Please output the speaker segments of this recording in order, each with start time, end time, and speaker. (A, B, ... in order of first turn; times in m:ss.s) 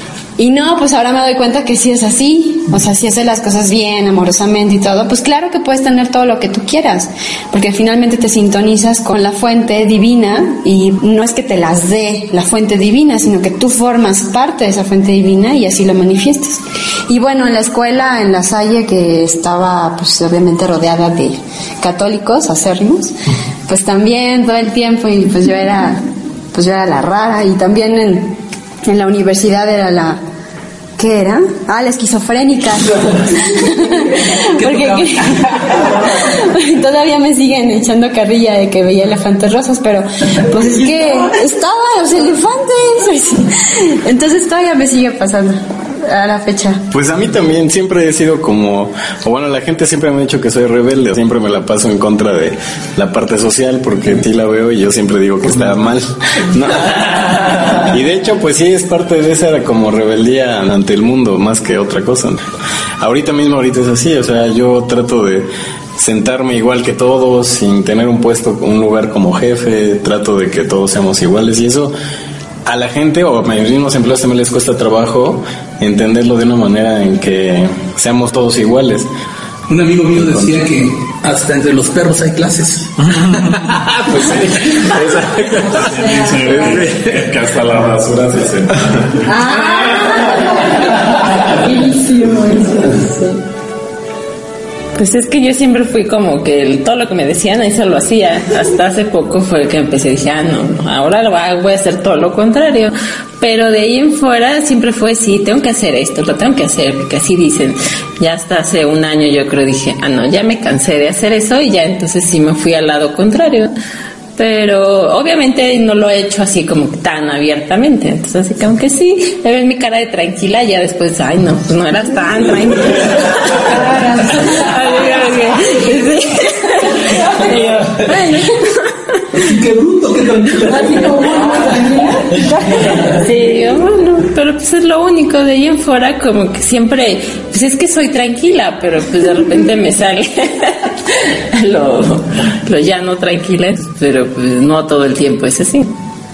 0:00.4-0:23.2 A
0:23.7-0:26.0 A
0:26.5-0:30.2 A
0:31.0-0:46.8 A
0:34.6-0:35.2 B
0:46.9-1:02.4 C
1:03.0-1:11.9 C
1:12.7-1:19.1 C
1:19.7-1:23.6 B
1:24.4-1:29.3 D
1:29.3-1:30.5 A
1:31.6-1:33.2 A
1:35.0-1:53.7 E
1:54.4-2:08.9 E
2:09.4-2:11.9 B
2:13.0-2:25.9 E